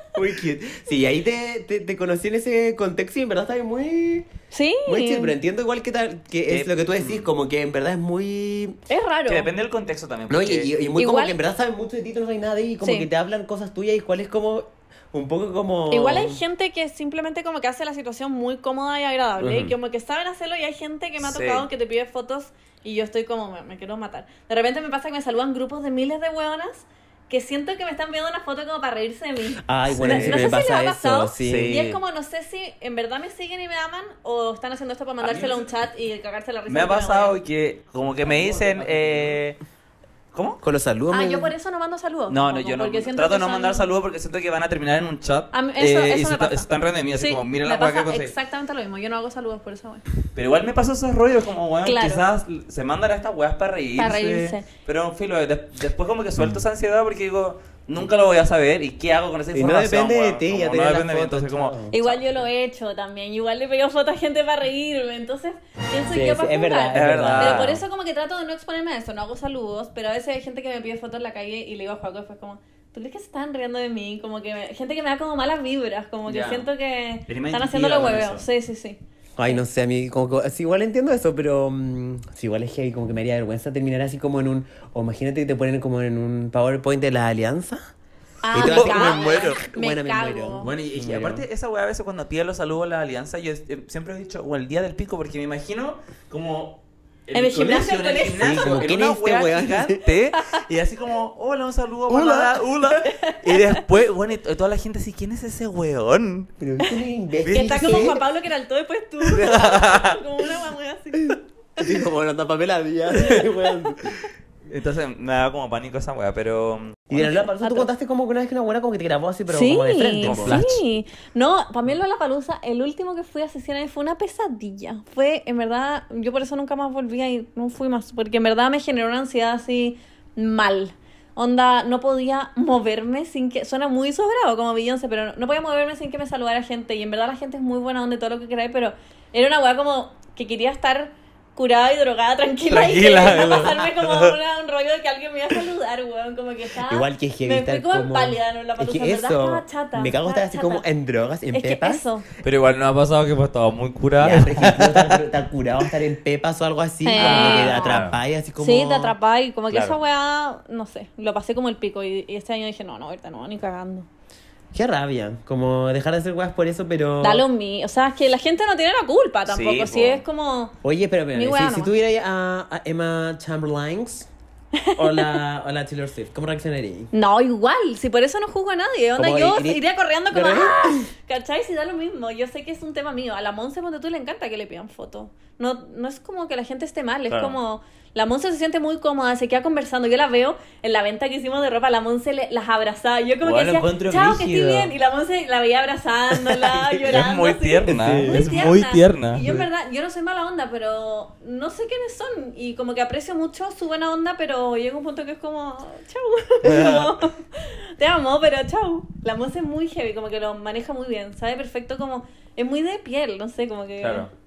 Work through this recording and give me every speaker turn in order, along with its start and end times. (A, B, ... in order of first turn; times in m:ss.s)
0:00.2-0:04.3 A
0:04.5-0:05.3 B
0:04.8-0:08.8 A
0:06.5-0:07.3 C
0:08.9-0:09.5 B
0:09.3-0:10.7 C
0:10.3-0:16.4 A
0:11.0-0:11.4 B
0:12.8-0:13.1 B
0:15.9-0:37.4 B
0:19.4-0:19.7 A
0:21.2-0:21.7 C
0:29.6-0:31.8 A
0:29.9-0:30.4 C
0:31.4-0:32.0 C
0:35.2-0:35.8 C
0:36.7-0:39.6 C
0:38.2-0:39.4 A
0:40.3-0:40.6 C
0:40.6-0:41.5 A
0:41.1-0:43.9 B
0:42.3-0:48.3 C
0:45.5-0:50.0 B
0:50.3-1:02.5 C
0:51.8-0:52.2 B
0:54.0-0:54.7 B
0:59.5-1:01.9 A
1:01.9-1:19.6 B
1:06.1-1:07.8 A
1:06.9-1:07.8 C
1:16.3-1:16.7 C
1:17.3-1:18.4 C
1:19.4-1:27.8 A
1:28.4-1:30.7 B
1:28.5-1:31.5 A
1:28.6-1:29.6 C
1:30.6-1:46.5 C
1:37.3-1:38.8 B
1:38.4-1:40.0 A
1:40.3-1:40.6 B
1:42.1-1:43.0 A
1:43.0-1:43.8 B
1:46.6-1:48.2 A
1:47.4-1:48.2 C
1:47.5-1:51.8 B
1:49.3-1:50.2 C
1:51.2-1:54.1 A
1:54.7-1:57.3 C
1:57.1-2:00.7 A
1:57.2-1:57.9 B
1:59.5-2:30.8 B
2:00.2-2:00.8 C
2:22.7-2:24.4 C
2:26.8-2:32.0 A
2:31.5-2:32.3 B
2:32.4-2:35.3 C
2:34.2-2:39.2 A
2:37.0-2:38.0 B
2:37.2-2:38.2 C
2:38.6-2:44.1 B
2:39.7-2:40.0 C
2:44.7-2:47.4 A
2:47.2-2:50.7 B
2:49.5-2:50.2 C
2:50.8-2:54.3 A
2:51.3-2:51.9 B
2:54.8-2:55.4 B
2:55.0-2:57.1 A
2:57.1-3:34.3 B
2:59.2-3:01.1 A
3:07.3-3:07.6 C
3:13.4-3:14.9 C
3:16.7-3:17.0 A
3:17.0-3:19.5 C
3:17.9-3:18.4 A
3:26.6-3:27.2 C
3:34.0-3:34.3 C